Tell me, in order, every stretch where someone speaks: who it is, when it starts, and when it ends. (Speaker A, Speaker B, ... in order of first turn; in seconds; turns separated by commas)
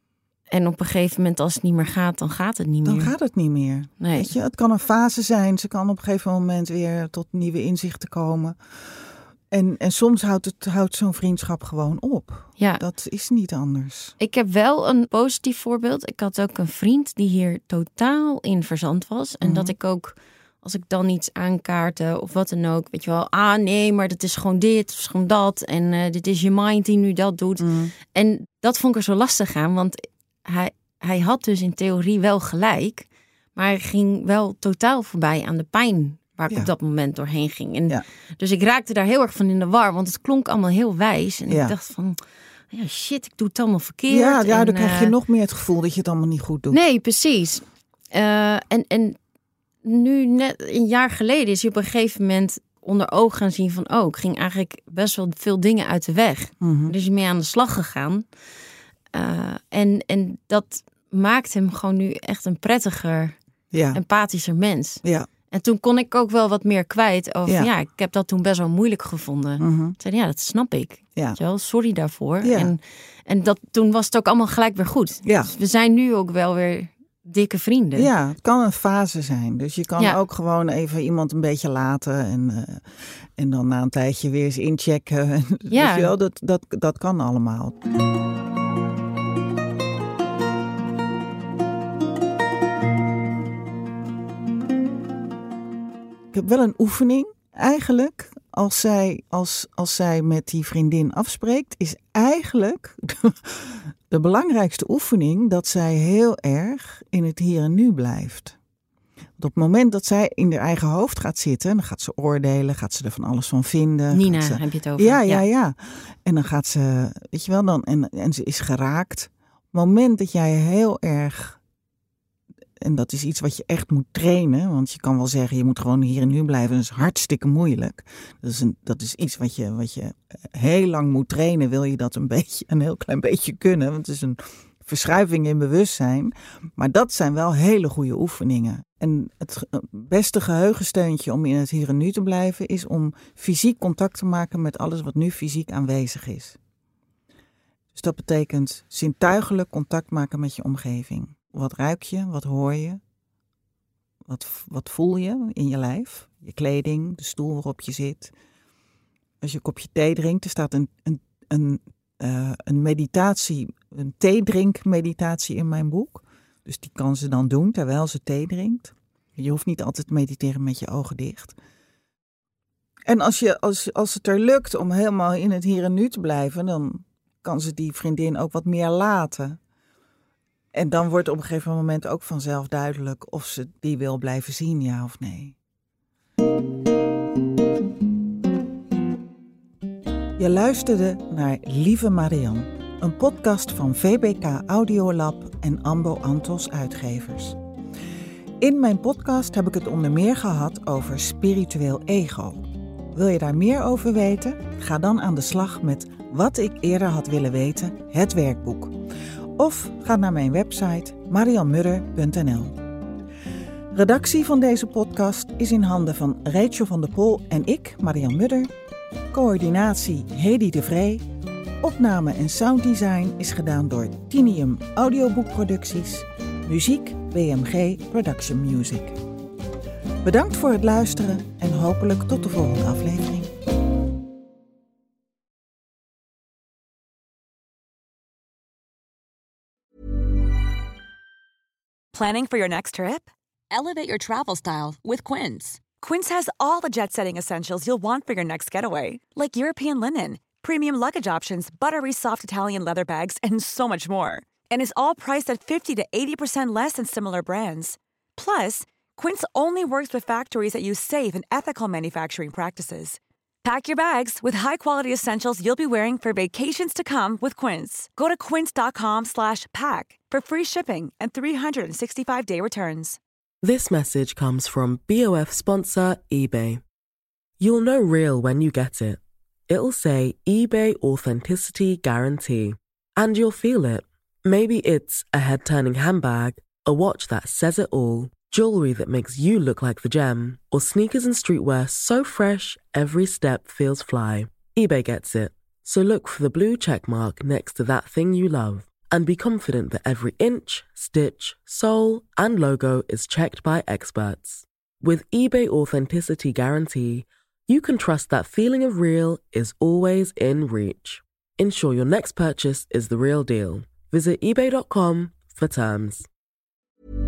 Speaker A: 0.5-3.1, Speaker B: 2.8-8.6, Speaker A: 4.0-4.3, Speaker B: 9.5-14.1, Speaker A: 14.2-42.2, Speaker B: 19.4-19.7, Speaker B: 27.6-27.9, Speaker B: 41.5-41.7, Speaker A: 42.7-45.1, Speaker B: 44.1-46.8, Speaker A: 46.7-49.2, Speaker A: 49.8-58.2, Speaker B: 56.6-56.9, Speaker A: 59.1-63.4, Speaker B: 63.7-64.0, Speaker A: 63.9-78.1, Speaker B: 69.6-70.0, Speaker B: 72.4-72.7, Speaker B: 75.2-75.5, Speaker B: 77.9-87.8, Speaker A: 85.7-86.1, Speaker B: 96.3-108.6, Speaker B: 109.4-121.6, Speaker A: 114.1-115.4, Speaker B: 122.8-146.6, Speaker B: 147.9-153.0, Speaker B: 154.2-158.3, Speaker B: 159.4-171.6, Speaker B: 173.1-179.6, Speaker B: 180.7-185.6, Speaker B: 190.4-197.6, Speaker B: 198.6-208.9, Speaker B: 209.6-212.8, Speaker B: 213.9-218.7, Speaker B: 219.3-221.2, Speaker B: 221.8-229.2, Speaker B: 230.2-233.5, Speaker C: 242.1-273.2, Speaker D: 273.6-276.8, Speaker D: 277.6-316.3